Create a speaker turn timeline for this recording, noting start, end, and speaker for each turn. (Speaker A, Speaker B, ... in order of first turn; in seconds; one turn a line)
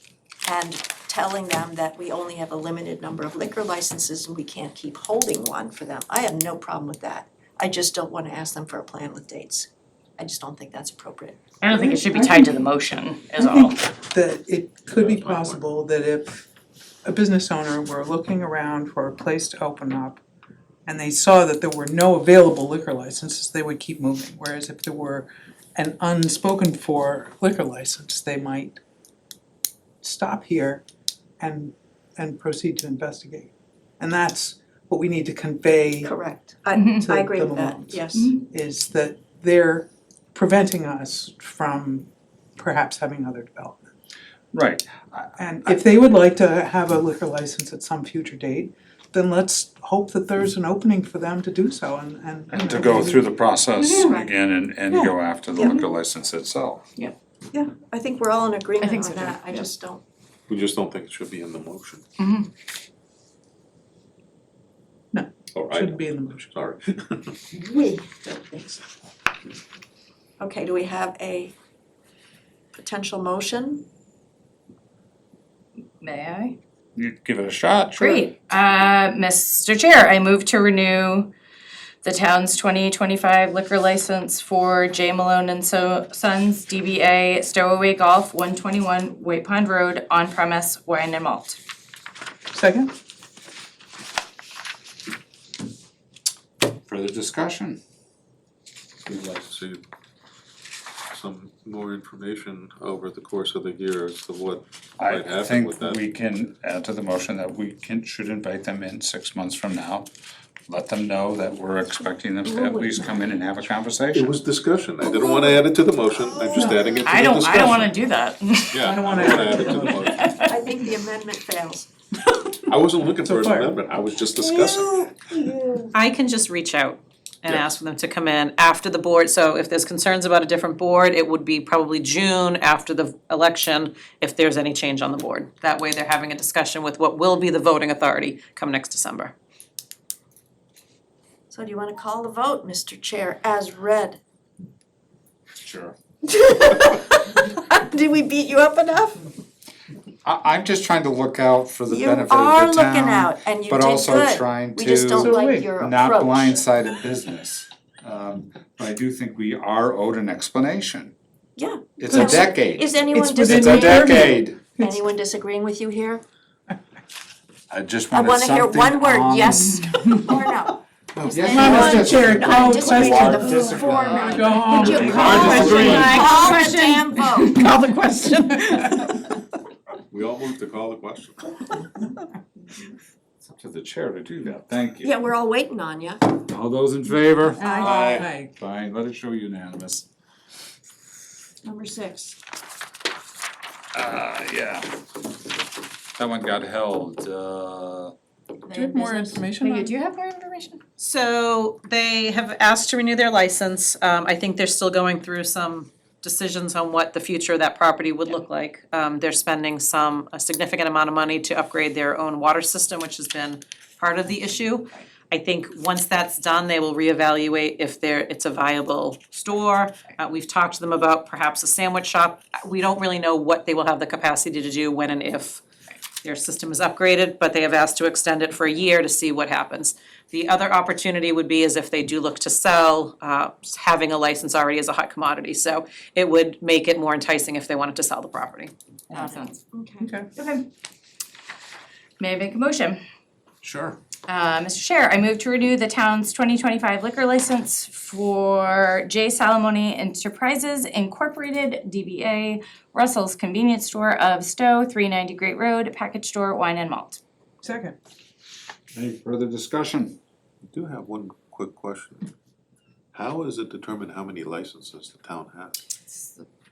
Speaker A: 0.5-11.4
Speaker B: 11.6-13.8
Speaker C: 11.7-12.6
Speaker C: 13.4-16.4
Speaker D: 14.9-15.6
Speaker C: 17.1-20.2
Speaker C: 20.9-28.8
Speaker C: 30.0-30.8
Speaker C: 31.4-36.1
Speaker A: 36.0-38.3
Speaker B: 36.8-37.1
Speaker C: 36.8-43.9
Speaker E: 44.5-45.8
Speaker C: 45.4-53.4
Speaker E: 52.5-56.8
Speaker B: 53.8-54.2
Speaker A: 53.9-54.3
Speaker A: 54.9-55.8
Speaker A: 57.5-60.0
Speaker B: 58.8-59.7
Speaker D: 60.5-62.0
Speaker B: 62.2-62.5
Speaker C: 65.1-66.4
Speaker D: 65.5-67.3
Speaker A: 67.5-68.8
Speaker A: 70.4-71.5
Speaker A: 72.7-73.8
Speaker B: 76.0-76.6
Speaker E: 77.0-78.3
Speaker B: 78.0-81.3
Speaker B: 82.0-91.6
Speaker C: 92.5-92.9
Speaker E: 96.9-97.8
Speaker D: 99.1-99.8
Speaker D: 101.1-106.0
Speaker E: 105.0-110.1
Speaker E: 110.7-114.3
Speaker A: 112.6-112.8
Speaker D: 114.1-118.0
Speaker A: 115.1-117.2
Speaker C: 116.5-116.8
Speaker B: 117.0-118.9
Speaker D: 118.7-120.3
Speaker C: 118.8-120.1
Speaker B: 119.5-120.6
Speaker A: 120.5-121.9
Speaker D: 122.7-125.1
Speaker C: 123.2-123.7
Speaker A: 124.4-125.9
Speaker F: 125.9-139.3
Speaker A: 141.5-144.2
Speaker E: 145.6-145.9
Speaker A: 146.2-149.3
Speaker E: 150.2-161.1
Speaker A: 151.9-156.6
Speaker C: 155.1-155.7
Speaker A: 161.6-166.2
Speaker E: 162.0-164.6
Speaker C: 162.1-162.5
Speaker C: 163.1-164.9
Speaker E: 167.7-169.8
Speaker A: 168.1-177.7
Speaker E: 171.1-176.5
Speaker C: 171.5-176.2
Speaker B: 172.6-172.8
Speaker B: 174.7-179.1
Speaker F: 177.4-178.0
Speaker D: 180.1-181.6
Speaker E: 183.5-185.1
Speaker A: 185.0-186.2
Speaker E: 186.4-190.1
Speaker A: 187.6-188.2
Speaker B: 187.6-188.1
Speaker D: 187.8-188.2
Speaker C: 187.9-188.5
Speaker A: 191.6-192.4
Speaker E: 193.9-194.9
Speaker E: 196.2-198.1
Speaker B: 198.6-200.8
Speaker C: 198.7-199.9
Speaker F: 201.0-225.6
Speaker F: 226.2-239.4
Speaker B: 239.1-239.6
Speaker A: 239.7-240.1
Speaker C: 240.0-240.3
Speaker B: 240.3-240.6
Speaker B: 242.2-243.0
Speaker D: 243.6-243.9
Speaker B: 244.2-257.2
Speaker C: 257.6-257.9
Speaker E: 258.9-260.1
Speaker D: 260.7-262.3
Speaker D: 263.1-265.8